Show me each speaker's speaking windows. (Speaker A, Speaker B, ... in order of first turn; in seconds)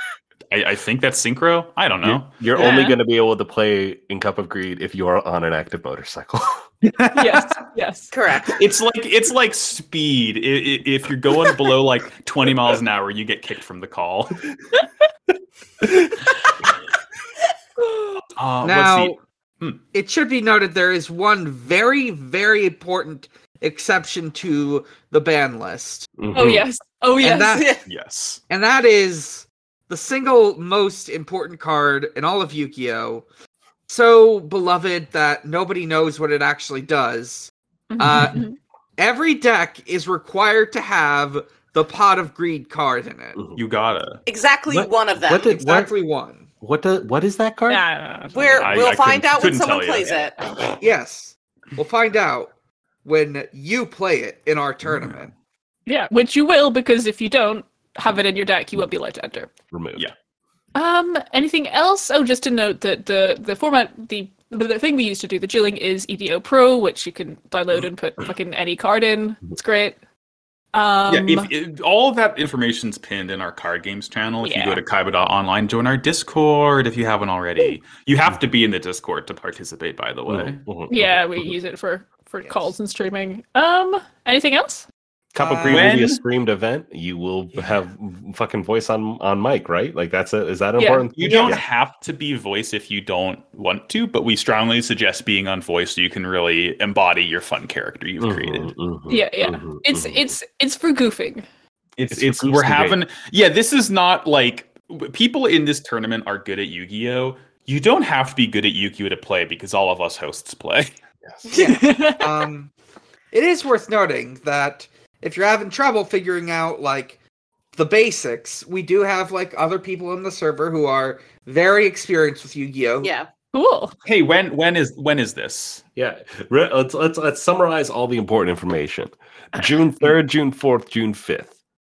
Speaker A: 0.5-2.8, 6.8-7.5, 8.5-14.4, 18.4-19.8, 27.9-28.4, 43.6-44.2, 48.6-50.3, 71.1-80.6, 85.7-86.2, 91.2-98.7, 102.0-110.9, 124.0-125.8
Speaker B: 2.0-6.7, 26.2-26.7, 44.7-45.9, 46.6-47.9, 59.7-60.1, 80.3-81.5, 85.3-91.6, 98.2-100.3, 102.1-103.0, 126.0-131.6
Speaker C: 2.5-3.0, 7.2-8.1, 17.8-18.2, 26.3-27.8, 37.9-38.6, 47.7-48.7, 55.9-59.5, 60.8-70.0, 70.7-71.5, 74.4-74.8, 80.9-84.9, 90.8-91.1, 99.1-101.5, 111.5-112.3, 123.5-123.9
Speaker D: 8.1-8.6, 44.3-45.6, 48.3-50.4, 111.5-111.8, 123.0-123.3
Speaker E: 18.6-19.2, 19.9-26.1, 27.2-27.7, 28.5-33.2, 33.9-38.4, 39.0-43.4, 45.5-46.5, 50.8-52.5, 53.0-55.3, 85.4-85.9, 91.3-91.6, 111.5-112.7, 113.3-117.2, 117.8-123.1